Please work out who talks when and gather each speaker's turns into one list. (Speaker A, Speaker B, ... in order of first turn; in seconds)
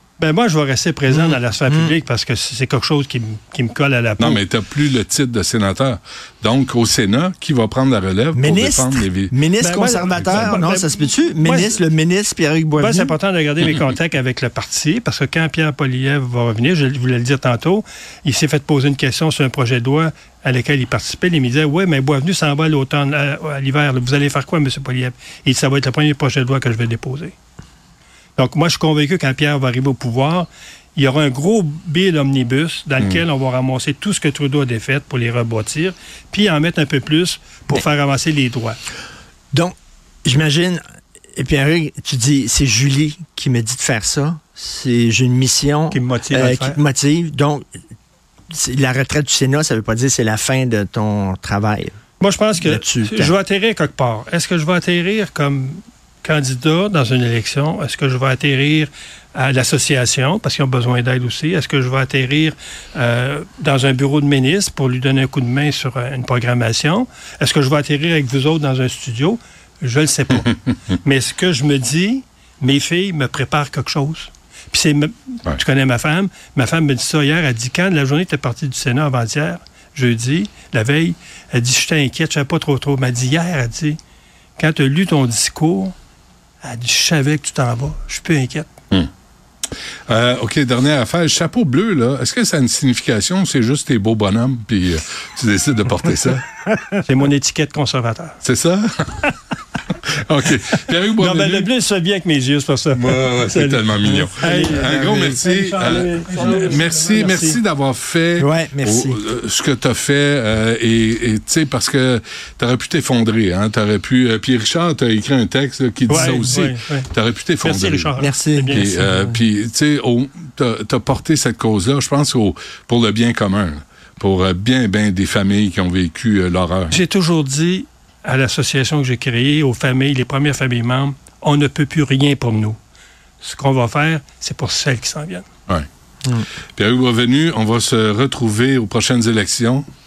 Speaker A: 0.2-4.4, 9.6-11.8, 12.8-27.3, 28.4-38.8, 45.9-46.8, 52.2-84.0, 84.6-85.9, 86.6-88.7, 97.0-98.4, 101.2-107.6, 116.1-117.1, 117.6-118.9, 126.9-132.8, 133.4-135.4
Speaker B: 1.1-1.9, 8.3-13.1, 39.5-40.8, 41.4-47.6, 48.5-51.9, 52.6-53.3, 104.0-105.2, 108.4-109.2, 118.2-119.4
Speaker C: 4.2-9.3, 10.2-10.4, 90.1-96.4, 98.4-99.3, 100.1-101.7, 102.9-118.1, 118.7-127.0, 136.8-139.9